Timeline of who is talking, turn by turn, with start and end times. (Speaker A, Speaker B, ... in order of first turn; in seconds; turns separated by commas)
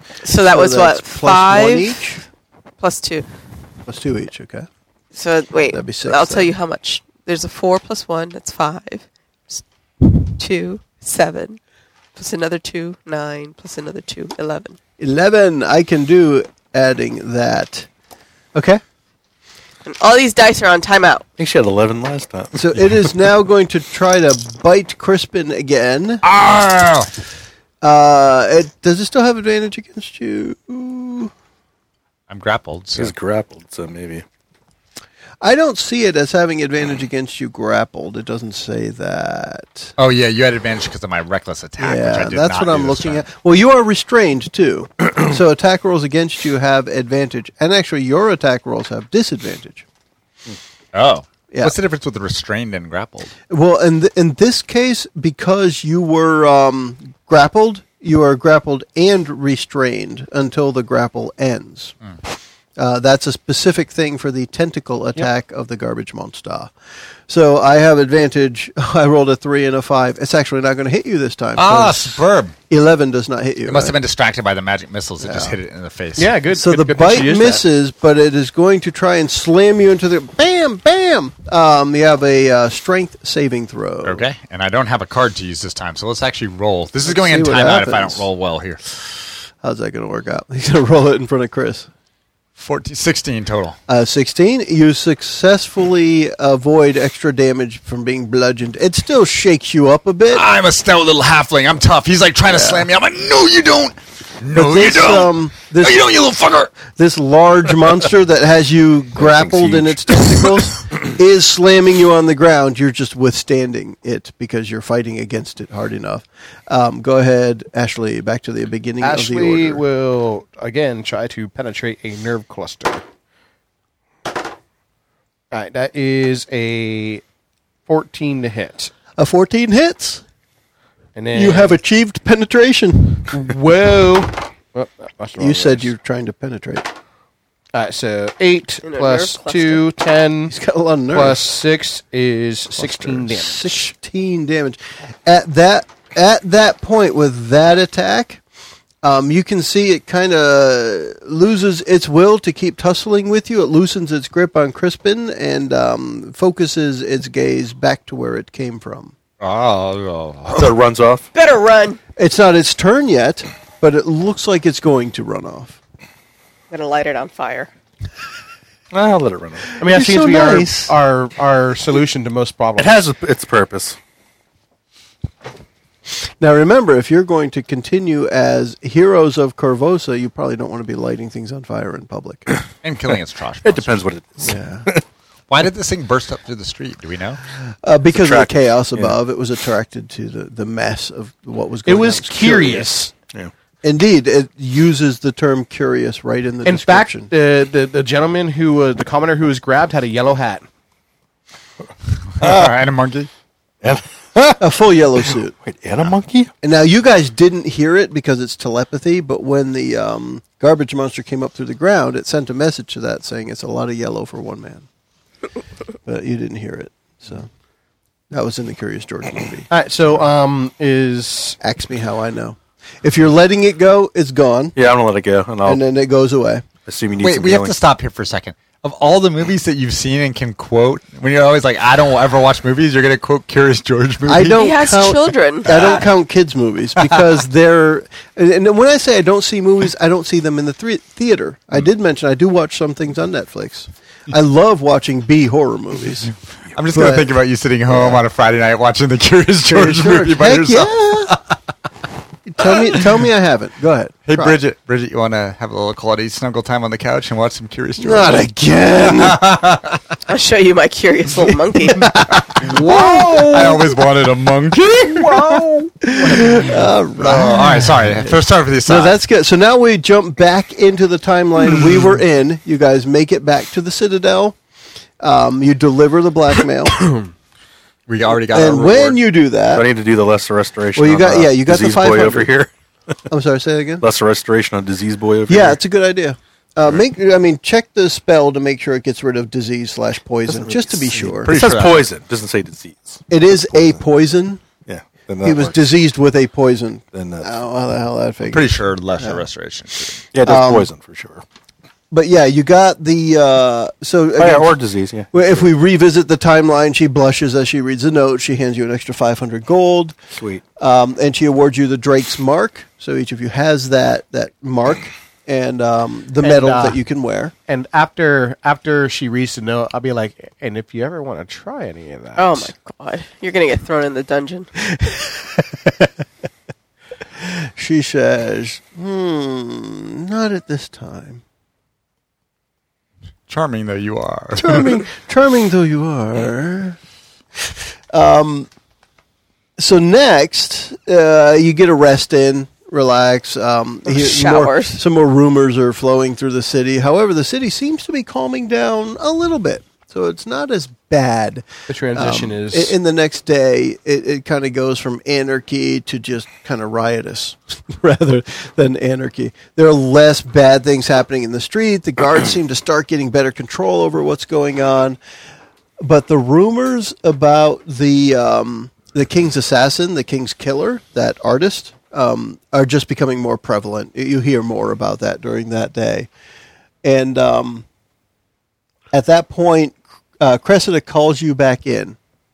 Speaker A: 0.2-2.2, Speaker B: 0.4-2.2, Speaker A: 2.8-3.3, Speaker B: 3.9-4.7, Speaker A: 5.1-11.6, Speaker B: 5.6-6.5, Speaker A: 12.2-14.8, Speaker B: 15.0-17.9, Speaker B: 18.6-18.8, Speaker A: 19.9-21.3, Speaker C: 21.4-22.8, Speaker B: 22.6-26.2, Speaker D: 26.2-27.1, Speaker B: 27.8-31.3, Speaker D: 32.3-33.1, Speaker C: 33.0-34.2, Speaker B: 35.4-39.9, Speaker D: 40.0-43.2, Speaker B: 41.8-49.9, Speaker D: 50.9-53.3, Speaker B: 51.5-51.8, Speaker B: 53.5-62.0, Speaker B: 62.8-66.7, Speaker B: 67.3-74.0, Speaker D: 71.6-72.6, Speaker D: 73.7-76.3, Speaker B: 75.2-75.6, Speaker E: 76.2-77.6, Speaker B: 76.5-84.3, Speaker D: 84.0-88.8, Speaker B: 87.0-88.3, Speaker B: 89.6-91.9, Speaker D: 92.6-93.8, Speaker B: 93.9-100.5, Speaker D: 100.3-106.9, Speaker B: 102.5-102.9, Speaker B: 104.5-106.1, Speaker B: 106.9-119.8, Speaker C: 109.2-110.2, Speaker E: 119.0-123.0, Speaker E: 125.5-127.2, Speaker E: 127.9-128.9, Speaker B: 129.2-130.2, Speaker E: 131.2-131.8, Speaker B: 131.3-133.3, Speaker E: 133.3-135.9, Speaker B: 135.4-136.9, Speaker E: 137.7-140.6, Speaker A: 138.8-139.9, Speaker B: 140.5-141.4, Speaker E: 141.1-143.8, Speaker C: 142.8-143.2, Speaker B: 143.2-148.4, Speaker B: 149.0-159.2, Speaker D: 159.4-160.7, Speaker C: 160.5-161.3, Speaker A: 161.3-162.0, Speaker B: 162.2-165.8, Speaker A: 166.7-167.7, Speaker C: 168.9-169.7, Speaker E: 169.8-173.0, Speaker B: 169.8-170.9, Speaker C: 172.8-174.0, Speaker B: 176.4-182.5, Speaker D: 182.8-183.9, Speaker C: 183.6-185.0, Speaker B: 184.4-184.9, Speaker D: 185.5-187.4, Speaker B: 187.8-193.0, Speaker C: 188.1-189.2, Speaker E: 191.9-193.1, Speaker B: 193.8-197.3, Speaker E: 196.7-200.7, Speaker D: 202.3-203.3, Speaker C: 202.4-202.7, Speaker C: 203.8-204.8, Speaker B: 204.6-205.6, Speaker C: 205.6-206.5, Speaker B: 206.6-214.9, Speaker B: 216.1-217.5, Speaker B: 218.3-219.7, Speaker E: 219.7-221.6, Speaker B: 221.6-224.8, Speaker C: 224.8-225.8, Speaker B: 225.6-226.7, Speaker C: 226.9-227.8, Speaker D: 227.2-234.9, Speaker B: 234.3-246.3, Speaker A: 234.6-235.7, Speaker D: 235.7-236.0, Speaker D: 246.8-251.6, Speaker B: 246.9-247.3, Speaker B: 247.9-248.2, Speaker B: 249.6-251.4, Speaker B: 252.5-254.6, Speaker D: 252.7-253.1, Speaker D: 254.3-258.4, Speaker B: 258.0-259.5, Speaker D: 259.0-260.0, Speaker A: 260.3-262.1, Speaker B: 261.9-264.0, Speaker D: 262.4-269.2, Speaker B: 265.2-274.6, Speaker B: 275.2-277.1, Speaker D: 278.1-279.2, Speaker B: 278.5-279.9, Speaker C: 279.7-282.7, Speaker B: 281.0-282.5, Speaker B: 283.3-284.1, Speaker C: 284.0-285.8, Speaker B: 285.5-291.6, Speaker C: 290.5-294.0, Speaker D: 291.4-292.1, Speaker B: 293.3-294.6, Speaker C: 294.9-295.9, Speaker B: 295.4-299.4, Speaker C: 297.1-297.5, Speaker D: 298.5-300.2, Speaker C: 300.3-301.4, Speaker B: 300.4-300.9, Speaker B: 302.1-304.8, Speaker C: 304.4-305.7, Speaker B: 305.3-310.1, Speaker C: 310.3-310.6, Speaker B: 310.8-317.5, Speaker E: 316.4-317.0, Speaker E: 317.7-322.7, Speaker A: 322.4-324.7, Speaker B: 327.4-331.4, Speaker D: 333.5-335.0, Speaker B: 334.6-337.0, Speaker B: 338.1-338.7, Speaker B: 339.8-365.2, Speaker A: 344.1-345.0, Speaker E: 351.9-352.9, Speaker B: 366.0-376.3, Speaker B: 377.0-377.9, Speaker B: 379.1-382.2